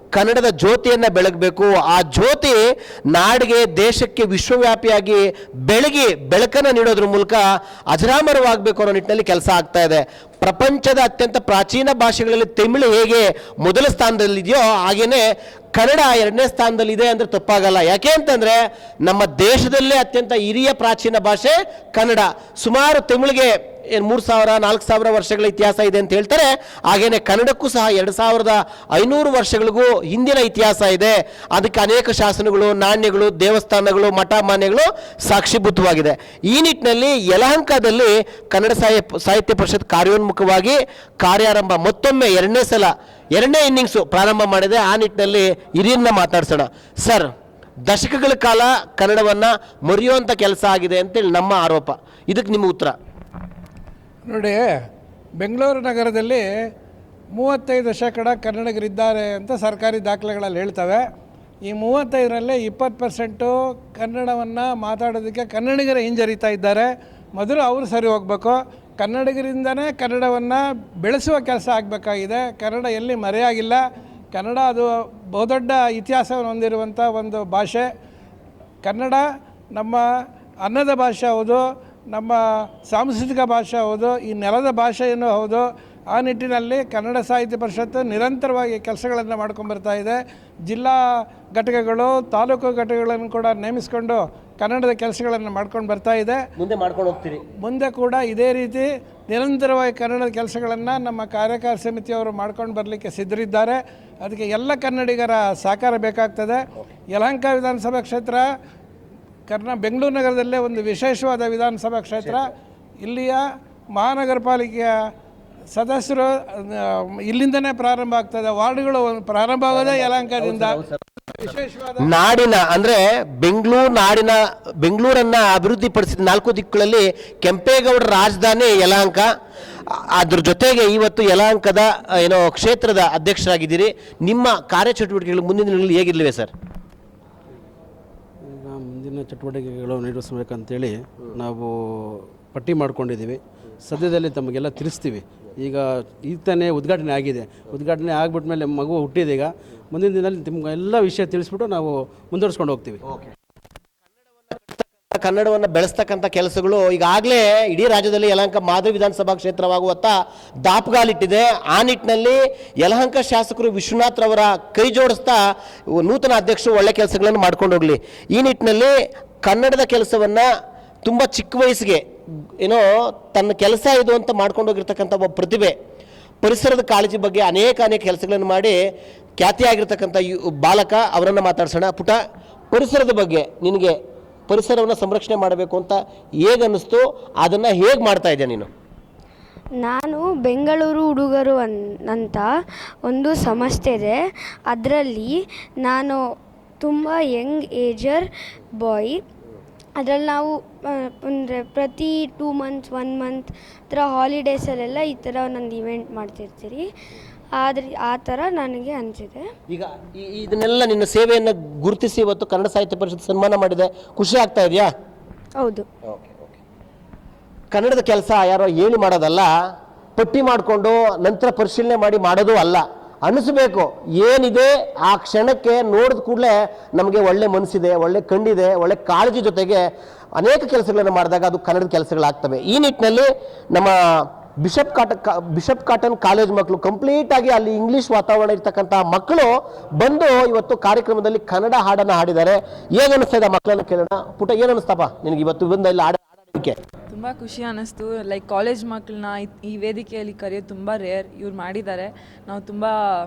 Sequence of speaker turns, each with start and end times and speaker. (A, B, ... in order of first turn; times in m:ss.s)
0:00.1-0:47.3 A
0:47.8-0:53.0 A
0:54.3-0:54.7 B
0:55.4-0:56.5 B
0:57.3-1:01.0 B
1:01.6-1:13.8 B
1:14.3-1:17.9 B
1:18.8-1:20.0 B
1:20.6-1:36.4 B
1:36.6-1:37.4 A
1:37.6-1:48.5 B
1:49.5-1:52.5 B
1:53.0-1:55.0 B
1:55.7-2:02.0 B
2:00.5-2:00.8 A
2:02.0-2:09.3 A
2:09.9-2:16.5 A
2:18.5-2:21.7 C
2:22.5-2:33.0 C
2:34.5-2:45.4 A
2:46.0-2:50.5 A
2:51.0-2:52.0 A
2:52.6-2:55.8 A
2:56.4-2:58.8 A
2:59.4-3:02.2 A
3:02.7-3:04.0 A
3:04.5-3:08.7 A
3:09.8-3:12.5 D
3:13.1-3:14.2 D
3:14.7-3:16.2 D
3:16.8-3:18.3 D
3:18.8-3:19.2 D
3:20.0-3:26.9 D
3:27.6-3:29.5 D
3:29.7-3:34.9 A
3:35.6-3:35.9 D
3:36.1-3:36.6 A
3:37.7-3:39.5 A
3:40.2-3:49.8 A
3:50.4-3:54.0 A
3:54.6-4:06.8 A
4:07.1-4:12.9 E